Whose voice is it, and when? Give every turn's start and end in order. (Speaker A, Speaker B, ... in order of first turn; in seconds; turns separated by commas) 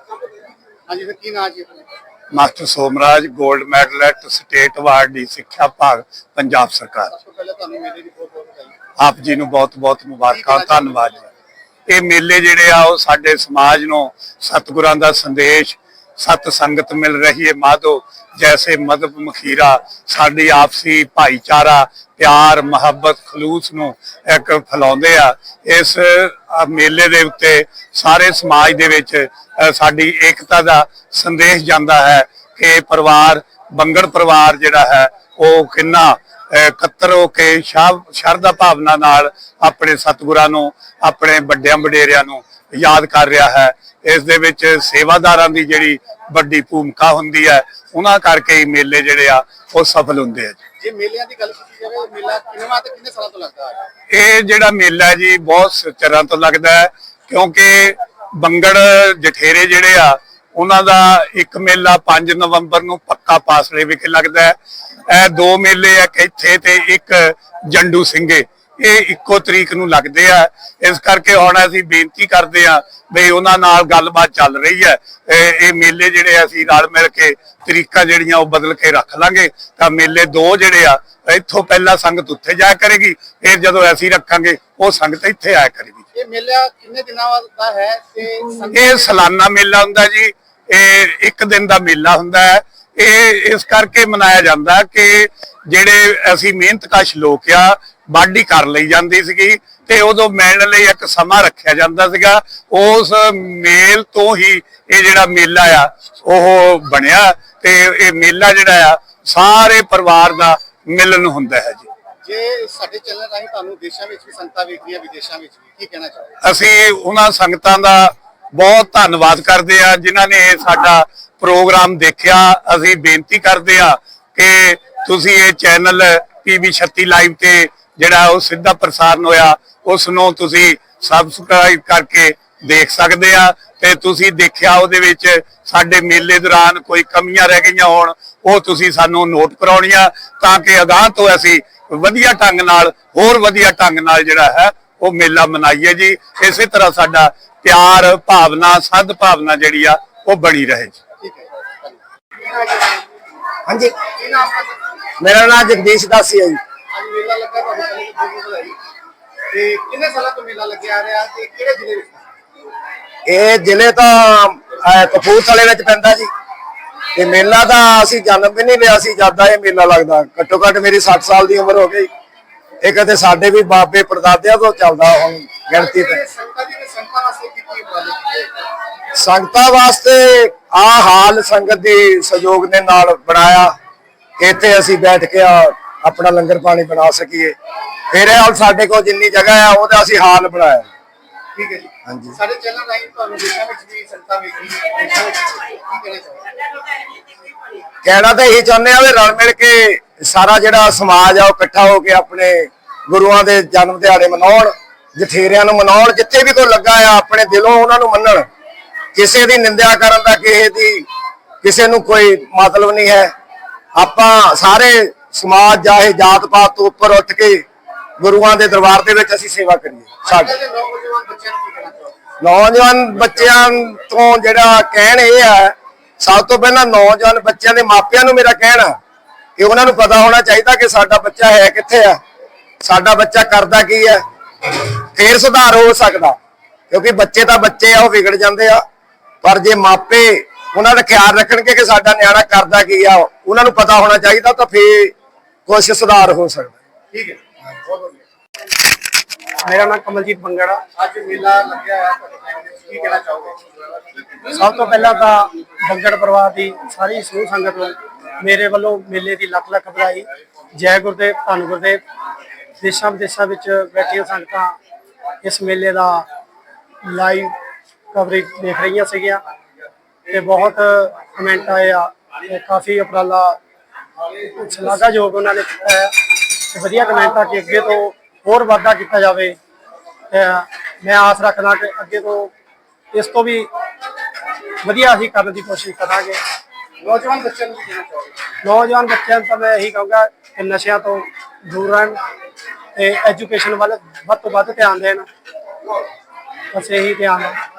Speaker A: 0.9-1.9, Speaker B: 2.3-7.1, Speaker A: 7.1-8.8, Speaker B: 9.0-11.2, Speaker A: 10.3-11.3, Speaker B: 11.9-50.6, Speaker A: 50.8-53.8, Speaker B: 54.1-64.6, Speaker B: 65.1-86.0, Speaker A: 86.2-89.2, Speaker B: 88.7-111.9, Speaker A: 112.2-116.3, Speaker B: 116.4-151.0, Speaker A: 151.2-153.1, Speaker C: 153.7-154.0, Speaker A: 154.0-155.0, Speaker C: 155.2-156.6, Speaker A: 156.9-158.8, Speaker A: 159.5-162.3, Speaker C: 163.3-166.3, Speaker C: 167.2-172.1, Speaker C: 172.8-176.2, Speaker A: 175.8-178.5, Speaker C: 179.2-183.7, Speaker C: 184.4-187.6, Speaker C: 188.1-190.9, Speaker A: 191.6-196.7, Speaker C: 192.1-192.3, Speaker C: 198.0-208.5, Speaker C: 209.2-211.1, Speaker C: 211.6-213.3, Speaker C: 213.9-217.6, Speaker C: 218.2-220.6, Speaker A: 220.2-222.2, Speaker C: 222.4-229.0, Speaker C: 229.6-232.2, Speaker C: 232.8-234.2, Speaker C: 235.1-236.4, Speaker C: 236.9-238.8, Speaker C: 239.4-245.1, Speaker C: 245.7-246.8, Speaker A: 247.1-248.2, Speaker D: 249.6-250.8, Speaker A: 251.0-254.1, Speaker D: 254.5-262.0, Speaker D: 262.8-264.8, Speaker D: 265.4-266.3, Speaker D: 267.0-267.6, Speaker D: 268.1-269.4, Speaker D: 270.3-273.6, Speaker D: 274.4-279.6, Speaker D: 280.3-282.5, Speaker D: 283.1-283.7, Speaker D: 284.8-286.4, Speaker A: 287.0-288.4, Speaker D: 288.6-292.2, Speaker D: 292.9-295.3, Speaker D: 296.7-297.6